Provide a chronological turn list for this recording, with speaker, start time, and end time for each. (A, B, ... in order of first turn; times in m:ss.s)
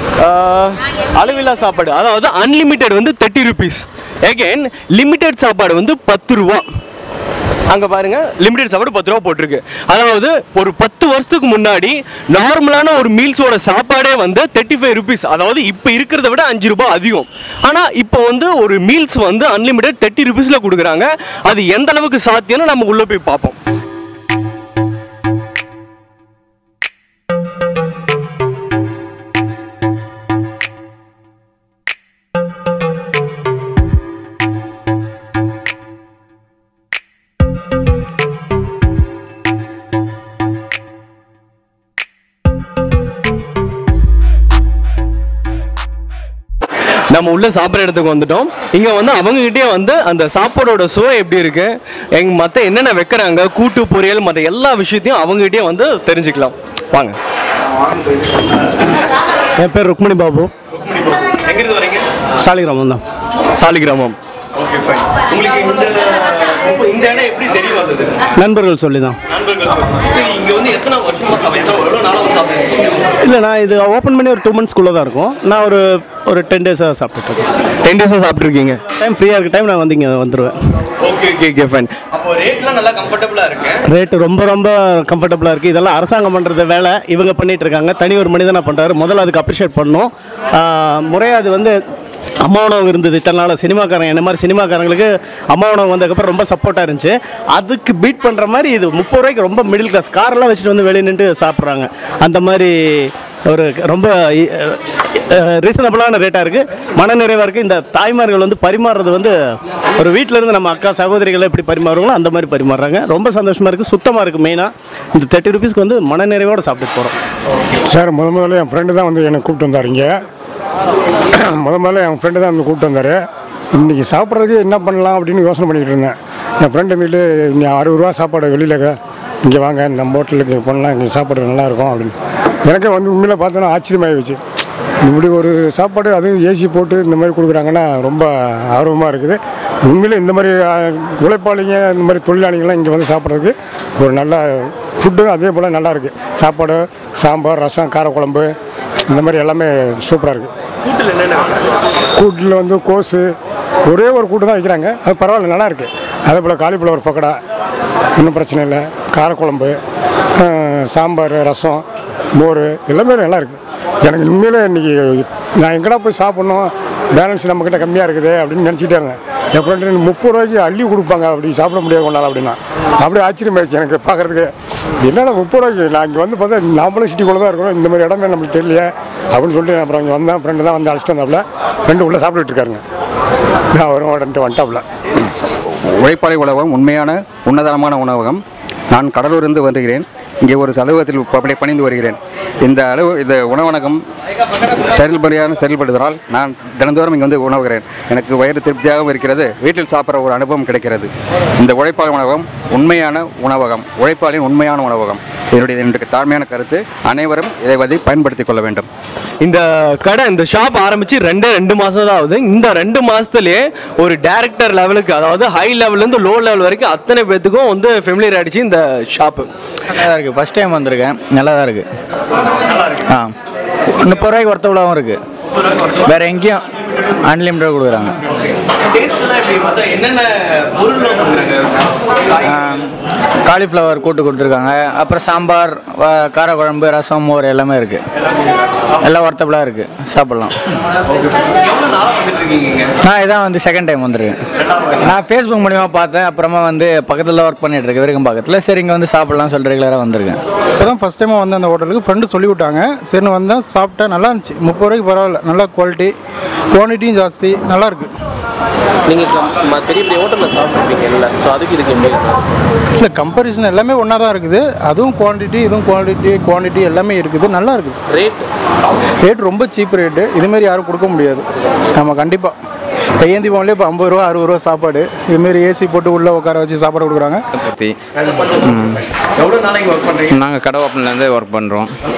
0:00.2-0:06.7 A
0:07.7-0:23.6 A
0:47.1-0:57.2 A
0:59.7-1:00.3 B
1:00.7-1:02.0 A
1:02.5-1:02.8 B
1:03.6-1:04.2 A
1:04.8-1:08.2 A
1:08.5-1:09.0 B
1:09.3-1:13.1 A
1:13.3-1:15.8 B
1:16.4-1:17.3 B
1:17.8-1:18.8 A
1:19.0-1:20.5 B
1:21.0-1:23.8 A
1:24.0-1:30.0 B
1:31.0-1:31.7 B
1:32.5-1:35.0 B
1:35.6-1:37.1 B
1:37.6-1:42.7 B
1:43.6-1:44.0 B
1:45.7-1:49.3 B
1:50.0-1:54.6 B
1:55.2-1:57.0 B
1:57.9-2:00.1 C
2:01.6-2:03.2 C
2:03.8-2:08.9 C
2:09.4-2:12.1 C
2:12.7-2:14.4 C
2:15.0-2:28.5 C
2:29.1-2:30.5 C
2:30.9-2:31.5 A
2:32.2-2:33.3 C
2:33.9-2:37.4 C
2:38.2-2:39.8 C
2:40.4-2:41.8 C
2:42.4-2:54.5 C
2:55.0-3:02.8 C
3:03.8-3:04.8 C
3:06.0-3:08.4 D
3:08.9-3:12.2 D
3:12.7-3:14.0 D
3:15.0-3:21.1 D
3:21.6-3:28.9 D
3:29.4-3:39.5 A
3:39.9-3:41.8 E
3:44.0-3:45.2 E
3:46.1-3:48.2 E
3:48.9-3:51.8 A
3:52.5-3:52.8 E
3:53.5-3:58.0 E
3:59.0-4:00.6 E
4:01.4-4:02.9 A
4:03.0-4:04.4 E
4:05.0-4:10.4 E
4:10.8-4:16.2 F
4:16.7-4:18.1 F
4:19.1-4:22.4 G
4:23.0-4:28.0 F
4:29.2-4:31.4 F
4:32.0-4:32.6 F
4:33.2-4:37.4 F
4:37.5-4:38.0 H
4:38.2-4:38.6 A
4:38.6-4:39.0 H
4:39.4-4:40.4 A
4:40.3-4:41.9 H